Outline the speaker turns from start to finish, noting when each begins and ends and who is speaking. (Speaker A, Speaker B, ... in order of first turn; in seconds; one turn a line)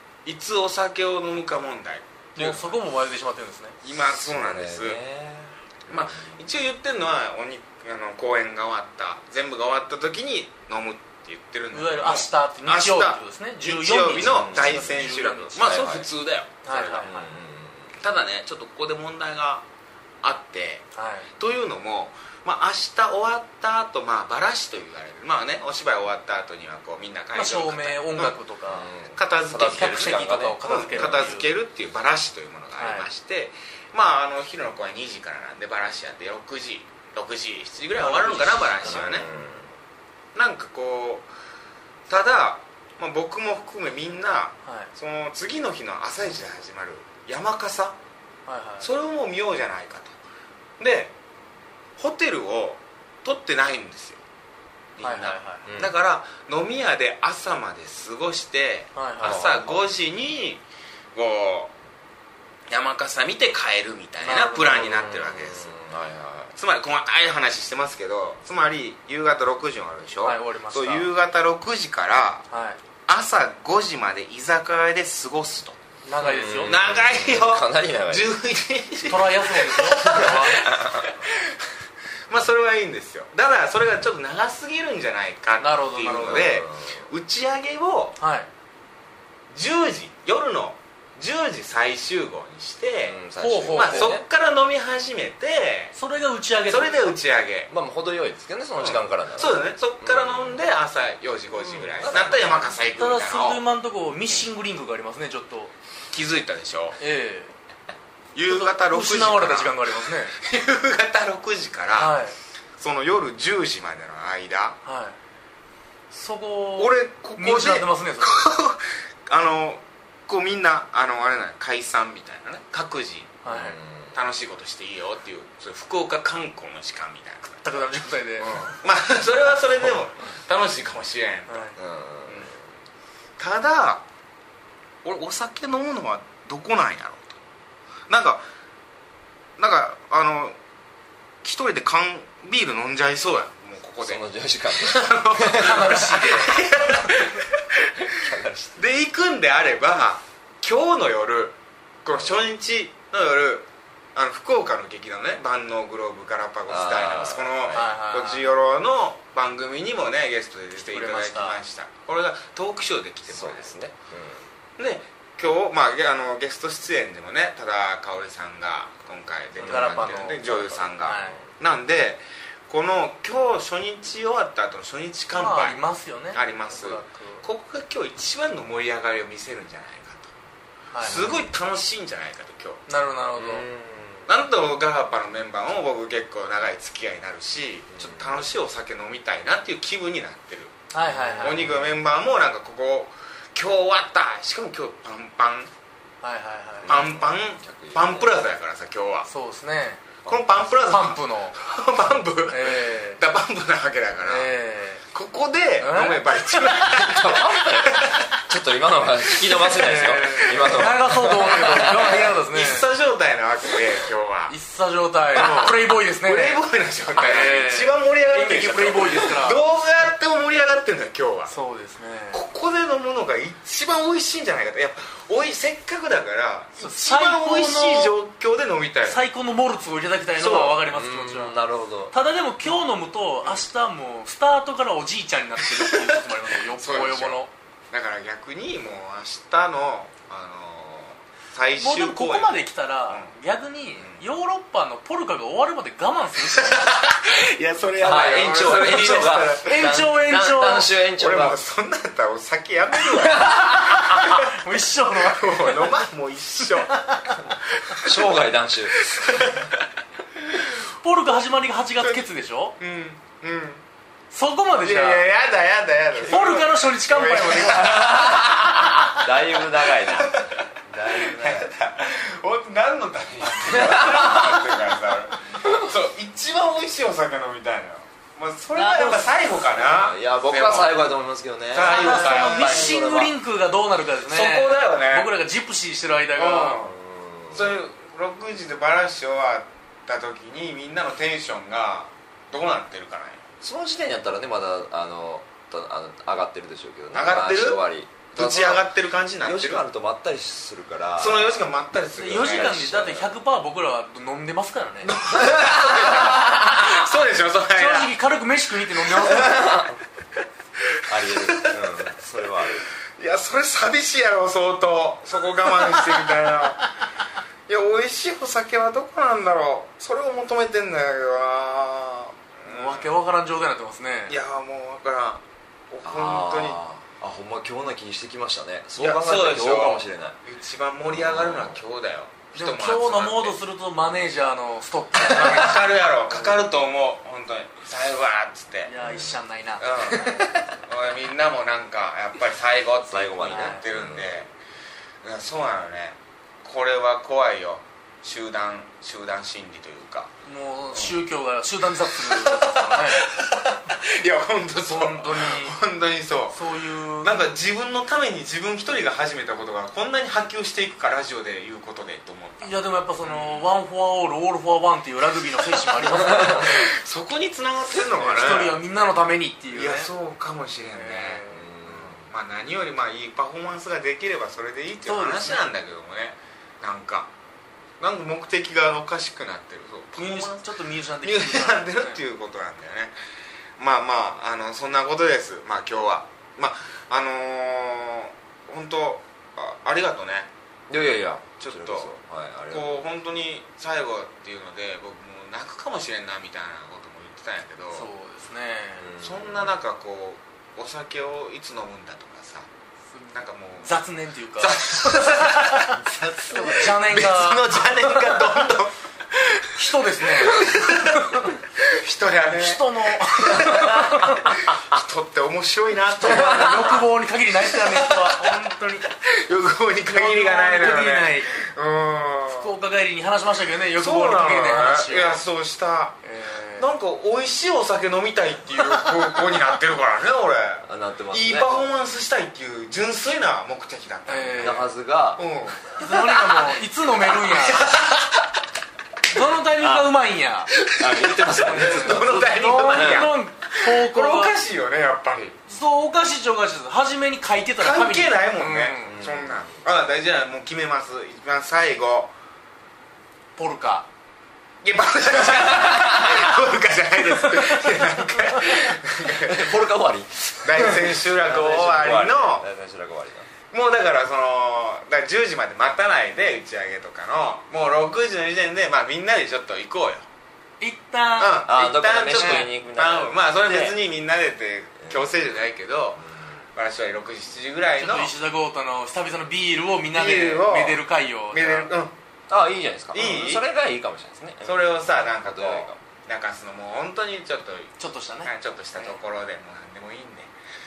Speaker A: 0.2-2.8
Speaker B: 2.4-3.8
Speaker A: 3.8-5.0
Speaker C: 4.2-6.4
Speaker A: 5.9-17.1
Speaker B: 11.7-15.7
Speaker C: 14.1-14.9
Speaker C: 15.6-16.1
Speaker B: 16.6-17.3
Speaker C: 17.0-18.0
Speaker A: 18.0-19.6
Speaker A: 20.2-20.8
Speaker B: 21.0-21.3
Speaker A: 21.4-28.3
Speaker B: 27.3-28.9
Speaker C: 28.7-31.4
Speaker A: 29.1-39.2
Speaker B: 29.7-31.5
Speaker B: 32.8-33.1
Speaker B: 38.0-39.3
Speaker C: 38.8-39.8
Speaker A: 40.4-41.3
Speaker A: 42.1-48.0
Speaker B: 44.7-44.9
Speaker B: 48.5-48.9
Speaker A: 48.8-50.1
Speaker A: 50.8-51.1
Speaker A: 52.0-54.2
Speaker A: 55.0-60.6
Speaker B: 55.0-55.7
Speaker C: 55.7-56.0
Speaker B: 59.0-59.5
Speaker C: 59.2-59.9
Speaker A: 61.1-61.7
Speaker A: 62.7-65.7
Speaker B: 64.2-64.9
Speaker C: 64.6-66.5
Speaker A: 66.5-72.5
Speaker B: 70.2-71.1
Speaker B: 72.5-72.8
Speaker A: 73.0-75.8
Speaker B: 76.0-76.7
Speaker C: 76.2-78.3
Speaker A: 76.6-81.5
Speaker B: 79.1-80.7
Speaker A: 82.3-88.2
Speaker B: 85.6-86.6
Speaker C: 86.2-87.1
Speaker B: 88.2-88.5
Speaker A: 89.5-93.2
Speaker C: 93.1-94.2
Speaker B: 93.4-94.2
Speaker A: 93.7-96.0
Speaker B: 96.0-97.2
Speaker A: 96.7-97.7
Speaker C: 97.7-100.6
Speaker A: 98.8-103.6
Speaker C: 101.6-102.8
Speaker B: 103.0-105.7
Speaker A: 106.1-107.0
Speaker B: 107.0-107.5
Speaker A: 108.3-109.8
Speaker B: 108.5-110.3
Speaker A: 110.3-112.2
Speaker B: 111.9-112.4
Speaker A: 112.8-114.8
Speaker B: 114.8-115.2
Speaker B: 116.1-118.6
Speaker A: 116.8-123.4
Speaker B: 123.4-123.8
Speaker C: 123.5-124.2
Speaker A: 124.1-127.7
Speaker B: 127.6-128.8
Speaker A: 128.4-131.7
Speaker B: 131.5-131.8
Speaker C: 131.8-132.6
Speaker A: 133.4-134.0
Speaker A: 135.0-137.3
Speaker A: 138.1-138.4
Speaker A: 139.6-140.6
Speaker A: 141.4-144.2
Speaker C: 144.0-146.1
Speaker A: 144.8-148.1
Speaker B: 145.5-146.6
Speaker C: 148.1-148.8
Speaker A: 148.8-163.8
Speaker C: 152.1-152.4
Speaker C: 156.7-157.9
Speaker B: 157.7-158.5
Speaker B: 160.8-161.6
Speaker C: 163.3-164.5
Speaker A: 164.8-175.8
Speaker B: 169.6-171.4
Speaker C: 169.6-170.2
Speaker C: 171.1-171.5
Speaker B: 175.3-177.4
Speaker A: 176.3-180.3
Speaker B: 180.9-181.3
Speaker C: 181.0-181.4
Speaker A: 181.0-182.8
Speaker B: 182.9-183.7
Speaker C: 183.4-184.3
Speaker A: 184.3-190.8
Speaker C: 187.9-188.5
Speaker B: 190.9-191.7
Speaker C: 191.1-192.0
Speaker A: 191.4-195.7
Speaker B: 196.2-196.9
Speaker C: 196.8-198.4
Speaker A: 196.8-199.3
Speaker B: 199.2-200.0
Speaker A: 200.2-204.5
Speaker B: 200.8-201.6
Speaker B: 202.5-203.2
Speaker B: 204.2-205.0
Speaker A: 205.1-208.4
Speaker B: 205.8-206.4
Speaker C: 206.8-212.3
Speaker A: 209.4-210.9
Speaker B: 209.7-212.9
Speaker A: 211.8-214.6
Speaker B: 214.5-216.6
Speaker A: 215.3-221.5
Speaker B: 217.2-219.6
Speaker B: 221.5-222.4
Speaker A: 222.3-229.2
Speaker B: 226.8-228.2
Speaker B: 229.0-231.6
Speaker C: 230.4-232.1
Speaker B: 232.1-237.5
Speaker A: 236.8-243.3
Speaker B: 241.8-246.9
Speaker A: 244.0-244.2
Speaker A: 246.6-250.0
Speaker C: 248.0-251.6
Speaker B: 248.7-250.9
Speaker A: 251.2-254.4
Speaker C: 253.3-254.0
Speaker B: 253.4-256.0
Speaker A: 255.3-259.7
Speaker B: 256.8-257.4
Speaker C: 258.0-259.0
Speaker B: 261.0-262.8
Speaker A: 262.8-263.8
Speaker B: 264.3-265.2
Speaker A: 264.8-269.3
Speaker B: 266.2-268.3
Speaker C: 267.5-271.7
Speaker A: 269.9-281.0
Speaker C: 273.7-274.7
Speaker B: 278.7-279.4
Speaker C: 279.8-283.4
Speaker A: 281.7-283.0
Speaker B: 281.9-286.8
Speaker A: 284.2-285.3
Speaker A: 286.4-286.9
Speaker C: 286.8-287.8
Speaker A: 287.5-293.4
Speaker C: 293.6-298.9
Speaker A: 297.1-297.8
Speaker A: 298.3-299.8
Speaker C: 299.4-301.7
Speaker A: 301.2-302.8
Speaker B: 302.1-305.1
Speaker C: 302.2-303.3
Speaker A: 305.1-308.1
Speaker C: 305.4-306.4
Speaker B: 307.7-309.8
Speaker C: 309.3-310.0
Speaker C: 311.1-312.8
Speaker A: 311.2-311.8
Speaker A: 313.2-316.9
Speaker A: 317.7-323.2
Speaker B: 322.6-324.4
Speaker A: 324.3-326.8
Speaker C: 326.0-330.4
Speaker A: 329.0-333.6
Speaker C: 331.1-331.8
Speaker B: 332.5-336.7
Speaker A: 335.3-338.9
Speaker B: 338.9-340.7
Speaker C: 339.0-339.4
Speaker A: 339.8-344.5
Speaker C: 343.1-344.4
Speaker B: 343.4-343.8
Speaker A: 345.2-350.3
Speaker B: 350.4-353.3
Speaker A: 352.1-356.6
Speaker B: 354.9-355.8
Speaker B: 356.5-357.5
Speaker A: 357.2-363.7
Speaker B: 362.6-366.9
Speaker A: 366.0-368.8
Speaker B: 368.1-370.1
Speaker A: 369.7-377.3
Speaker B: 370.9-371.7
Speaker C: 371.5-372.3
Speaker B: 375.1-375.7
Speaker A: 378.0-380.7
Speaker B: 380.1-382.2
Speaker A: 381.2-383.2
Speaker A: 383.8-390.5
Speaker C: 390.9-393.0
Speaker A: 391.6-392.1
Speaker A: 392.7-398.1
Speaker B: 397.9-399.1
Speaker C: 399.0-399.7
Speaker A: 399.2-402.7
Speaker B: 403.1-406.0
Speaker A: 403.3-404.0
Speaker A: 404.6-408.9
Speaker B: 406.5-408.7
Speaker B: 409.7-411.6
Speaker A: 410.4-417.0
Speaker B: 412.5-414.5
Speaker B: 416.2-419.1
Speaker C: 416.5-416.9
Speaker A: 417.8-422.7
Speaker B: 420.1-421.5
Speaker B: 422.5-425.4
Speaker A: 424.0-426.2
Speaker B: 426.2-426.9
Speaker A: 426.8-436.8
Speaker C: 430.9-431.9
Speaker B: 434.3-434.9
Speaker C: 434.6-435.4
Speaker B: 436.0-437.9
Speaker A: 437.3-438.2
Speaker B: 439.3-440.7
Speaker C: 439.8-440.1
Speaker C: 440.9-443.3
Speaker A: 441.1-445.6
Speaker B: 441.6-444.5
Speaker B: 445.7-449.1
Speaker A: 447.8-452.3
Speaker C: 449.0-449.9
Speaker B: 453.6-454.1
Speaker A: 454.8-459.8
Speaker C: 455.9-456.2
Speaker C: 459.3-463.5
Speaker A: 460.6-462.7
Speaker A: 463.7-470.2
Speaker B: 470.8-471.7
Speaker A: 471.4-476.2
Speaker C: 471.7-474.0
Speaker B: 472.2-472.7
Speaker C: 475.0-475.5
Speaker C: 476.2-476.6
Speaker A: 476.7-478.3
Speaker B: 478.0-481.9
Speaker A: 480.1-482.1
Speaker C: 482.5-486.0
Speaker A: 483.1-483.7
Speaker A: 484.6-487.9
Speaker B: 488.0-489.2
Speaker A: 488.4-490.5